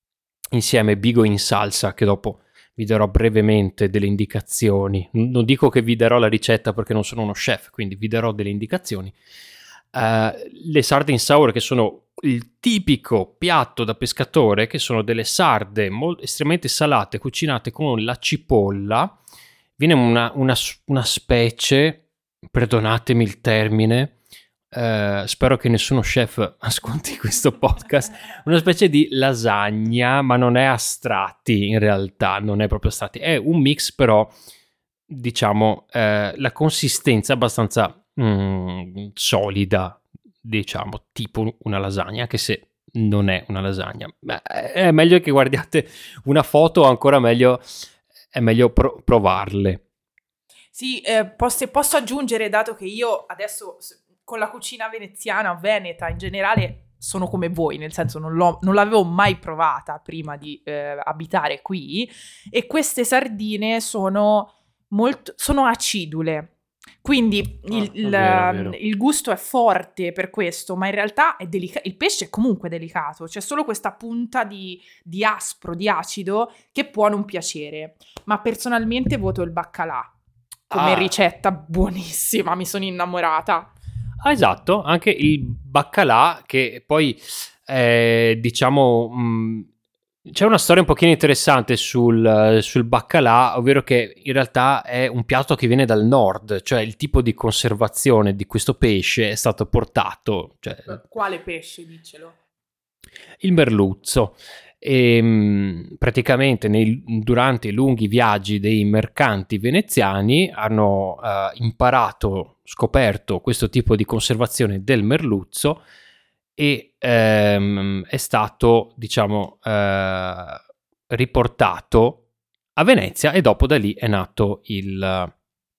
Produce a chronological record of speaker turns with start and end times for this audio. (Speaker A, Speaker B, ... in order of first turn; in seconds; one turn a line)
Speaker A: 0.5-9.1
Speaker A: 9.9-19.1
Speaker A: 19.8-24.1
Speaker A: 24.7-34.3
Speaker A: 35.1-47.6
Speaker A: 48.3-49.8
Speaker B: 50.7-66.5
Speaker B: 67.0-80.1
Speaker A: 67.7-68.8
Speaker A: 80.7-81.1
Speaker B: 80.7-83.7
Speaker A: 84.2-89.7
Speaker A: 90.2-101.0
Speaker B: 100.9-102.3
Speaker A: 103.4-115.8
Speaker A: 116.6-122.2
Speaker A: 122.8-125.3